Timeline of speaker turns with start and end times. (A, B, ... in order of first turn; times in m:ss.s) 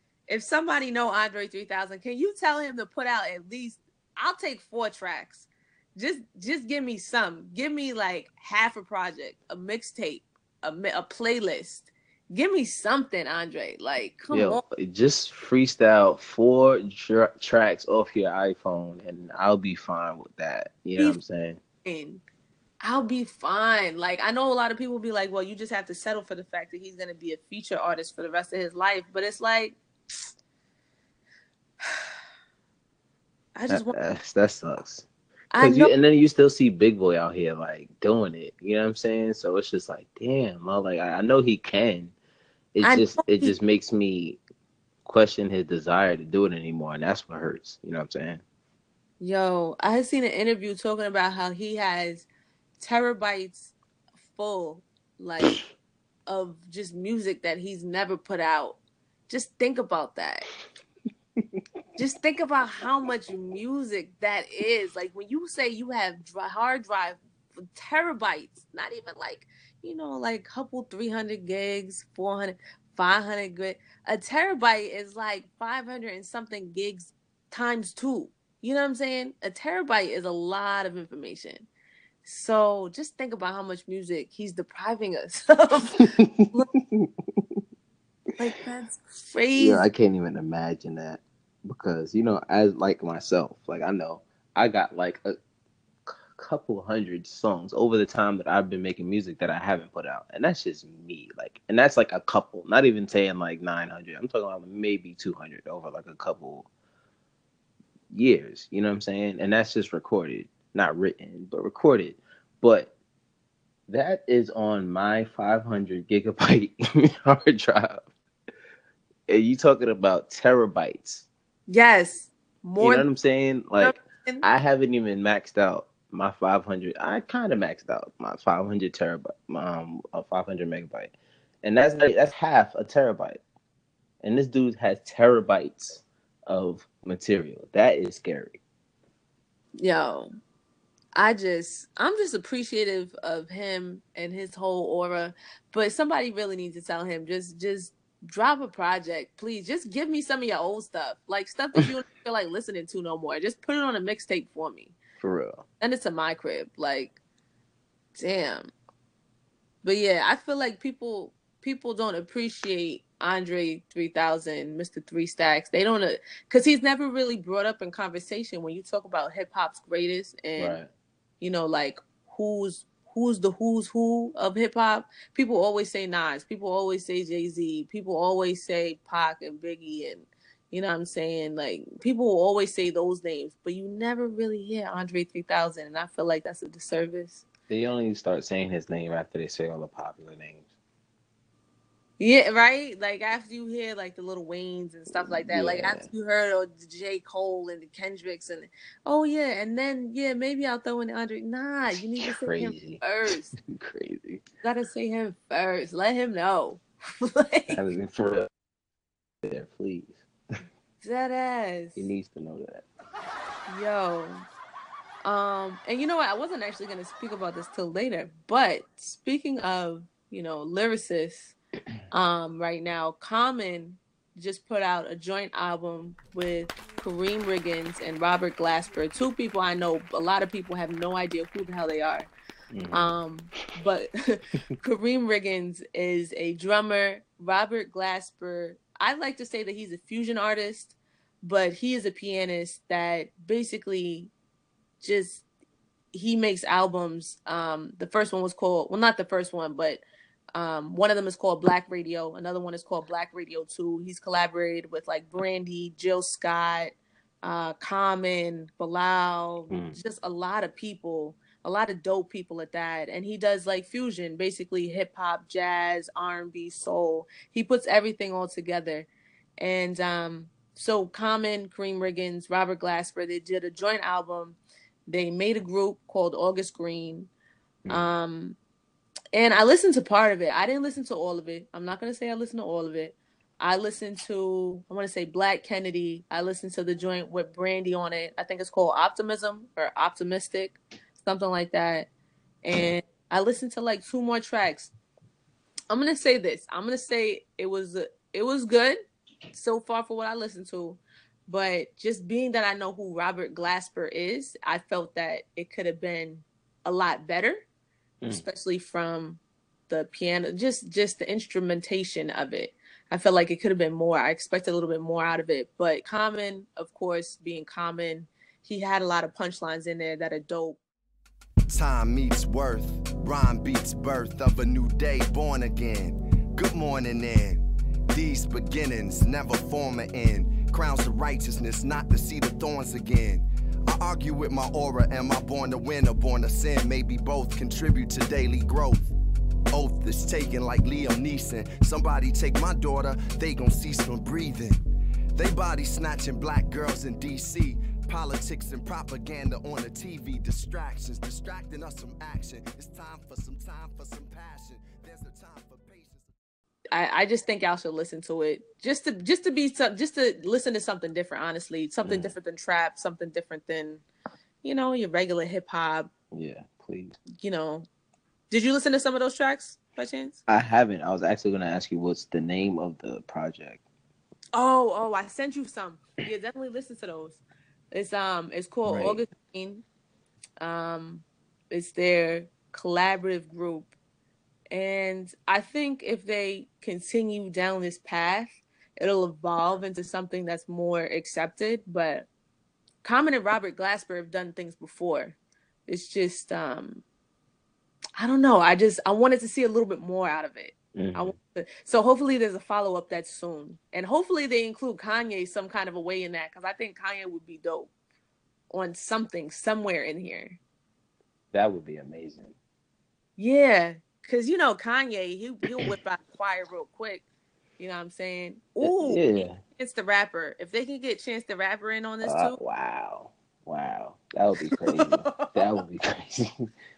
0:00.3-0:14.6 A
0:14.3-0:21.6 B
0:21.8-0:22.2 A
0:22.8-0:29.8 A
0:33.6-0:33.9 A
0:33.7-0:35.1 B
0:35.5-0:35.9 A
0:35.6-0:42.1 B
0:42.7-0:44.4 B
0:42.8-0:43.5 A
0:45.0-0:48.4 B
0:49.2-0:52.2 A
0:52.8-0:53.7 A
0:54.3-0:55.6 A
0:56.3-1:00.5 A
1:02.0-1:21.7 A
1:22.2-1:26.7 A
1:26.2-1:27.6 B
1:28.4-1:29.8 A
1:29.6-1:35.4 B
1:36.0-1:46.7 B
1:48.1-1:52.9 B
1:53.9-1:58.1 B
1:59.3-2:01.2 B
2:01.7-2:03.1 A
2:02.8-2:13.4 B
2:03.8-2:04.4 A
2:14.2-2:18.6 B
2:19.8-2:20.3 A
2:21.1-2:34.9 A
2:35.2-2:35.6 B
2:35.8-2:37.2 A
2:38.1-2:38.7 A
2:39.8-2:50.8 A
2:50.6-2:50.9 B
2:51.4-3:07.4 A
3:07.7-3:10.6 B
3:12.2-3:23.6 A
3:15.1-3:16.1 B
3:22.2-3:23.0 B
3:23.6-3:24.4 B
3:24.6-3:27.8 A
3:27.7-3:28.5 B
3:29.4-3:30.2 B
3:31.0-3:32.1 A
3:32.0-3:32.8 B
3:33.7-3:34.4 A
3:35.2-3:41.6 A
3:42.1-3:52.3 A
3:52.7-3:53.2 B
3:52.9-4:04.3 A
4:05.0-4:05.4 A
4:06.1-4:10.0 A
4:10.5-4:29.1 A
4:19.7-4:20.0 B
4:29.6-4:37.3 A
4:37.9-4:38.6 A
4:39.3-4:52.1 A
4:52.6-4:54.9 A
4:55.9-4:59.0 A
4:59.5-5:07.6 A
5:08.3-5:20.8 A
5:21.7-5:39.1 C
5:39.7-5:44.8 C
5:45.3-5:56.3 C
5:56.9-6:04.0 A
6:02.0-6:02.3 B
6:04.6-6:06.1 A
6:06.3-6:07.2 B
6:07.4-6:07.9 A
6:08.5-6:10.4 A
6:10.5-6:13.8 B
6:14.5-6:19.8 A
6:18.8-6:19.2 B
6:20.6-6:23.9 A
6:24.7-6:32.3 A
6:33.0-6:37.0 A
6:38.2-6:47.9 A
6:41.0-6:41.3 B
6:48.7-6:50.6 A
6:51.5-6:52.5 B
6:53.4-6:57.2 A
6:57.8-7:02.6 A
6:58.8-6:59.6 B
7:02.2-7:06.7 B
7:04.7-7:05.8 A